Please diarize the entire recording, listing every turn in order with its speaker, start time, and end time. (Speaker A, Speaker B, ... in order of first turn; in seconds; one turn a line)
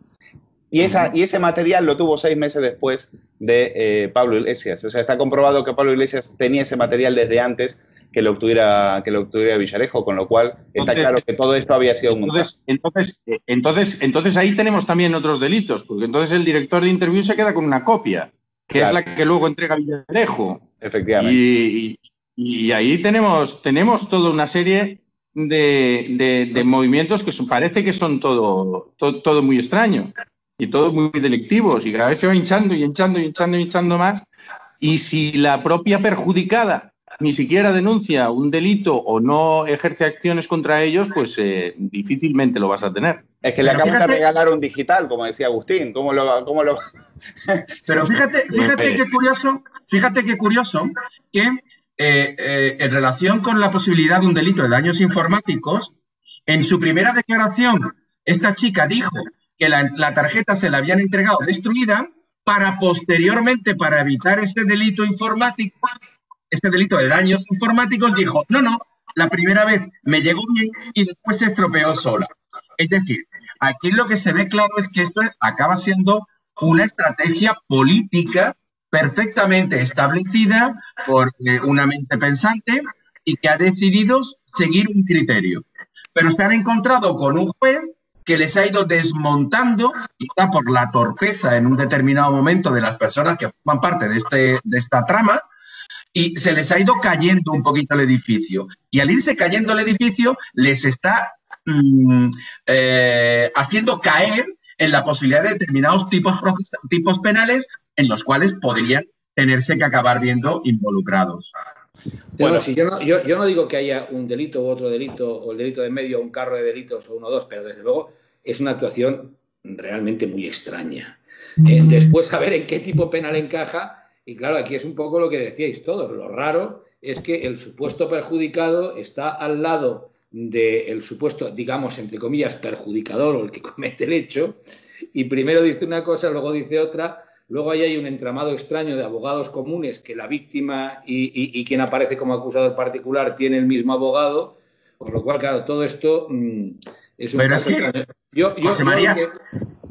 Speaker A: 0.7-12.5
Speaker B: 10.8-11.2
Speaker B: 12.1-20.7
Speaker A: 20.8-21.4
Speaker B: 21.2-34.3
Speaker B: 34.8-43.2
Speaker A: 43.4-46.8
Speaker C: 43.6-44.2
Speaker C: 47.9-55.9
Speaker B: 48.6-49.0
Speaker C: 56.5-65.9
Speaker C: 66.5-95.5
Speaker C: 96.1-111.5
Speaker D: 112.4-134.6
Speaker D: 135.1-149.3
Speaker C: 147.4-147.9
Speaker C: 148.6-149.2